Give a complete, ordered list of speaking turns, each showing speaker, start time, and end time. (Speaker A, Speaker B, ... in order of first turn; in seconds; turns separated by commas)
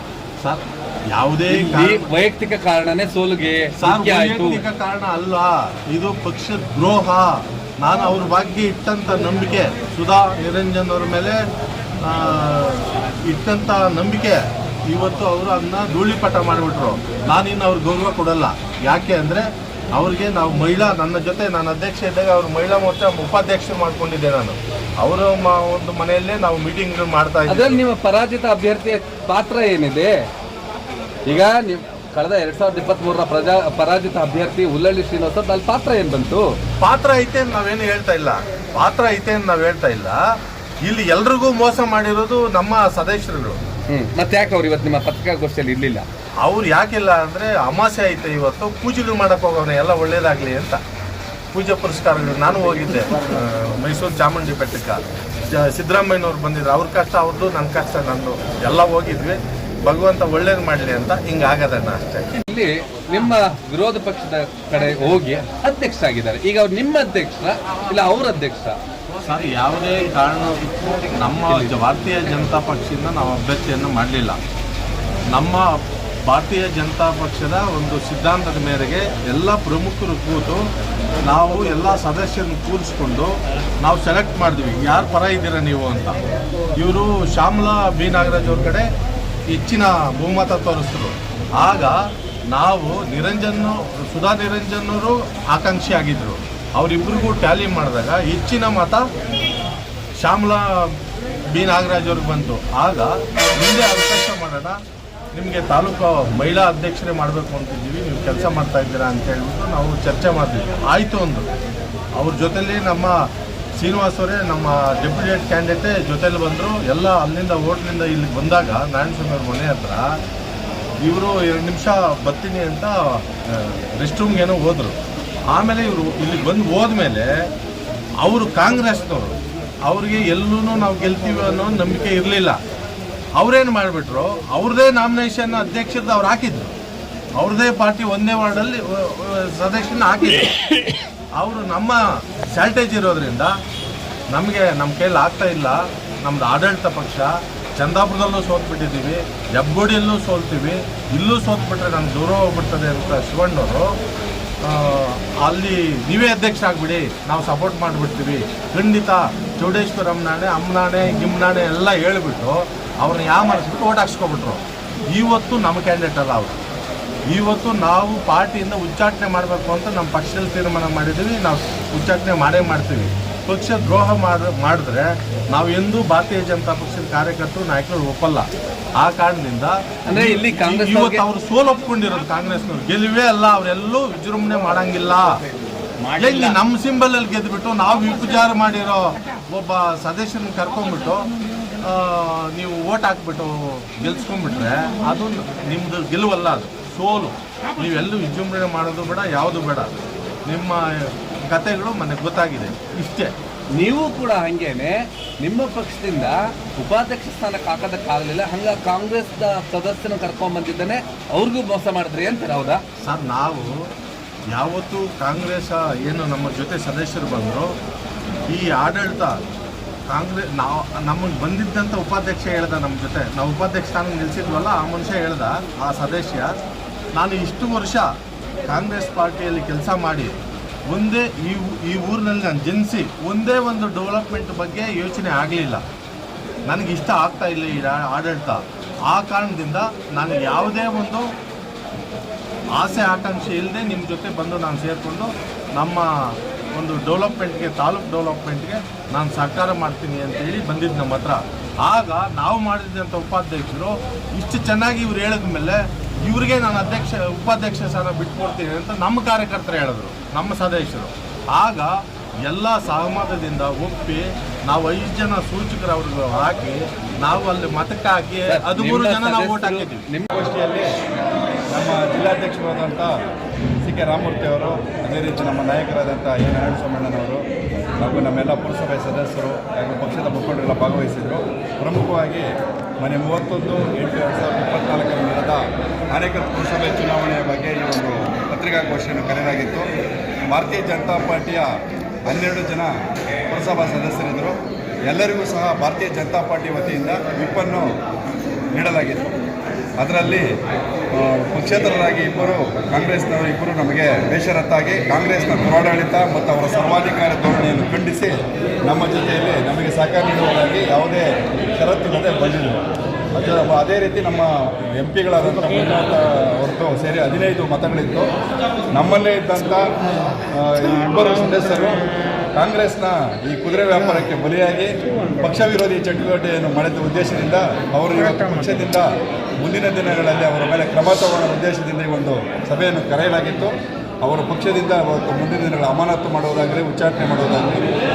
Speaker A: 0.4-2.1, Speaker B: 1.5-4.6, Speaker A: 3.8-11.4, Speaker A: 12.0-27.8, Speaker B: 27.5-30.1, Speaker B: 31.3-36.4, Speaker A: 36.8-40.2, Speaker A: 40.8-43.6, Speaker B: 43.9-46.1, Speaker A: 46.4-50.8, Speaker A: 51.5-55.0, Speaker A: 55.5-62.3, Speaker B: 62.5-68.8, Speaker A: 69.2-74.4, Speaker A: 75.3-80.6, Speaker A: 81.2-86.2, Speaker A: 86.8-88.8, Speaker A: 89.5-92.0, Speaker A: 92.5-99.0, Speaker A: 100.2-101.0, Speaker A: 101.5-104.8, Speaker A: 105.3-111.5, Speaker A: 112.2-113.3, Speaker A: 113.8-120.1, Speaker A: 121.0-125.0, Speaker A: 125.5-127.3, Speaker A: 128.2-132.6, Speaker A: 133.4-136.7, Speaker A: 137.4-143.5, Speaker A: 144.3-153.9, Speaker A: 154.7-164.6, Speaker A: 165.1-166.6, Speaker A: 167.3-178.5, Speaker A: 179.0-185.3, Speaker B: 180.1-181.2, Speaker A: 186.1-203.3, Speaker B: 203.8-212.8, Speaker A: 213.0-213.8, Speaker A: 214.5-217.7, Speaker A: 218.5-219.4, Speaker A: 220.1-226.5, Speaker A: 227.2-228.1, Speaker A: 228.7-230.3, Speaker A: 230.9-235.8, Speaker A: 236.7-241.3, Speaker A: 242.8-246.1, Speaker A: 246.8-261.9, Speaker A: 262.4-270.1, Speaker B: 268.5-270.3, Speaker C: 270.3-270.9, Speaker C: 271.7-273.1, Speaker C: 273.8-277.4, Speaker C: 278.0-282.4, Speaker C: 283.0-289.9, Speaker C: 290.5-291.7, Speaker C: 292.3-292.9, Speaker C: 293.5-297.9, Speaker C: 298.7-299.3, Speaker C: 300.0-300.4, Speaker C: 301.1-312.8, Speaker C: 313.4-318.3, Speaker C: 318.9-319.9, Speaker C: 320.5-329.1, Speaker C: 329.6-337.9